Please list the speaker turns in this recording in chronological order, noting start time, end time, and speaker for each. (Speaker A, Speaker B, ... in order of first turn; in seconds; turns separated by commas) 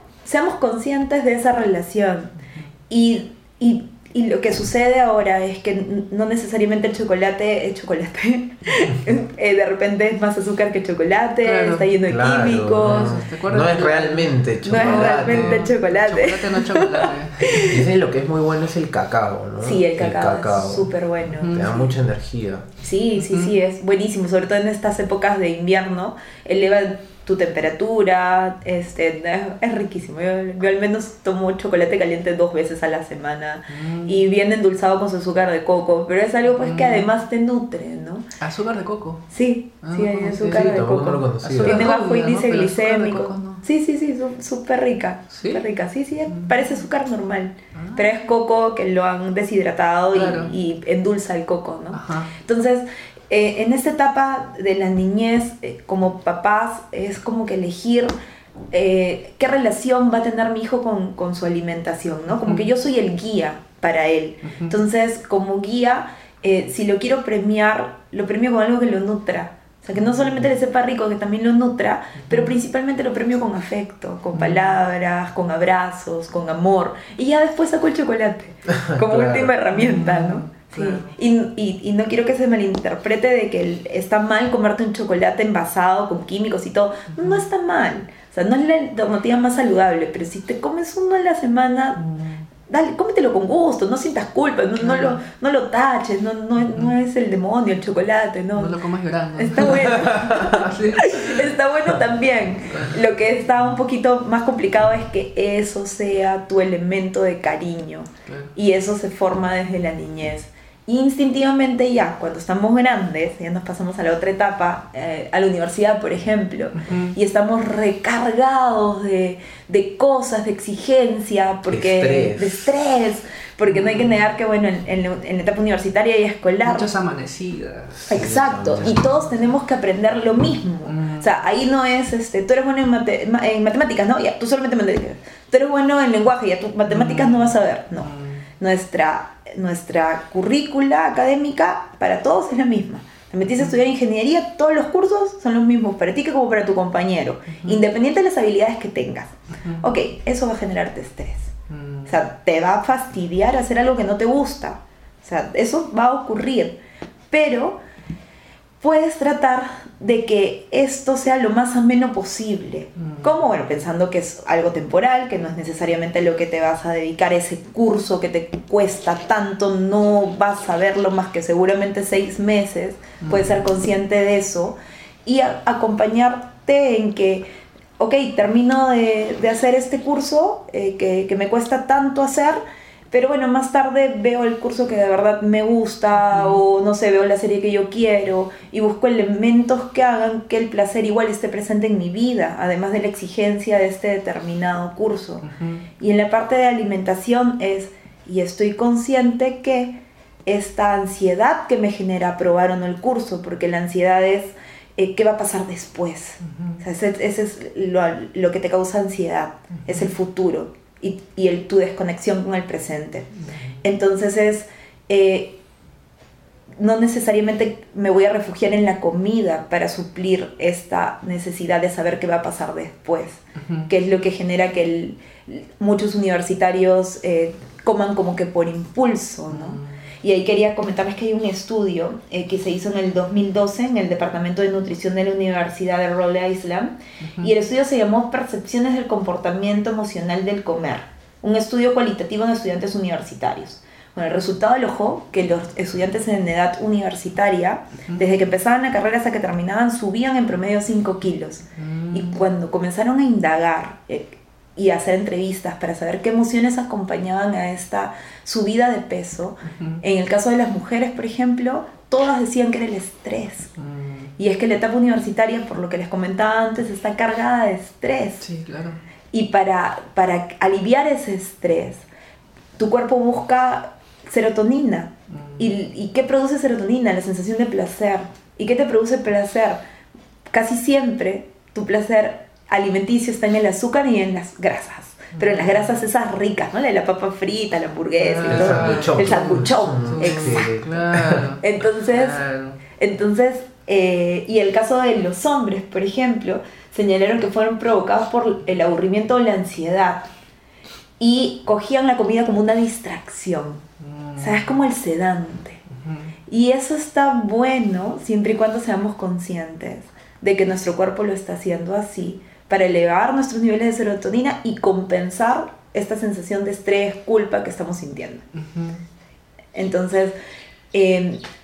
Speaker A: 0.2-2.4, Speaker A: 2.9-13.2, Speaker B: 11.4-12.0, Speaker C: 12.1-15.7, Speaker B: 12.8-17.8, Speaker A: 14.6-17.8, Speaker C: 17.6-20.9, Speaker A: 19.6-21.9, Speaker B: 21.3-21.7, Speaker C: 21.5-22.7, Speaker A: 22.8-38.2, Speaker B: 23.2-23.6, Speaker B: 33.7-34.3, Speaker B: 36.6-37.1, Speaker B: 38.4-39.3, Speaker A: 39.3-58.1, Speaker B: 39.8-43.6, Speaker C: 40.5-41.9, Speaker B: 45.3-45.7, Speaker B: 46.3-46.7, Speaker B: 47.7-48.1, Speaker B: 50.1-50.5, Speaker B: 51.9-52.3, Speaker A: 58.7-92.0, Speaker B: 64.4-64.8, Speaker B: 72.2-72.5, Speaker B: 74.3-74.8, Speaker C: 78.7-79.5, Speaker B: 79.7-81.1, Speaker B: 87.2-87.4, Speaker B: 92.0-92.5, Speaker A: 92.7-98.8, Speaker B: 94.8-95.2, Speaker B: 98.5-101.5, Speaker A: 99.4-126.9, Speaker B: 102.7-103.0, Speaker B: 108.3-108.5, Speaker B: 116.8-117.2, Speaker C: 121.7-122.7, Speaker B: 123.7-124.2, Speaker B: 126.6-128.1, Speaker C: 128.0-129.0, Speaker A: 128.1-151.5, Speaker B: 130.9-131.3, Speaker B: 136.9-138.5, Speaker B: 143.5-143.7, Speaker B: 147.6-147.8, Speaker B: 151.7-152.2, Speaker A: 152.1-156.8, Speaker A: 157.3-157.8, Speaker A: 158.8-195.5, Speaker B: 163.0-163.3, Speaker B: 173.2-173.7, Speaker B: 186.3-186.6, Speaker B: 195.4-195.8, Speaker A: 196.0-215.6, Speaker B: 206.5-206.8, Speaker A: 216.8-263.7, Speaker B: 223.6-223.9, Speaker B: 229.5-230.0, Speaker B: 237.2-237.5, Speaker B: 251.8-252.4, Speaker B: 259.7-260.0, Speaker B: 263.8-264.3, Speaker A: 264.4-268.4, Speaker B: 268.4-269.0, Speaker A: 269.3-272.1, Speaker A: 272.8-279.8, Speaker B: 275.3-275.7, Speaker A: 280.5-290.7, Speaker B: 285.4-285.9, Speaker B: 288.2-292.8, Speaker C: 288.5-291.5, Speaker A: 291.6-292.4, Speaker A: 293.0-300.3, Speaker A: 301.2-303.8, Speaker B: 304.0-304.7, Speaker A: 304.4-305.8, Speaker B: 305.9-306.3, Speaker A: 306.5-318.4, Speaker B: 318.5-319.0, Speaker A: 319.8-320.4, Speaker A: 320.9-321.4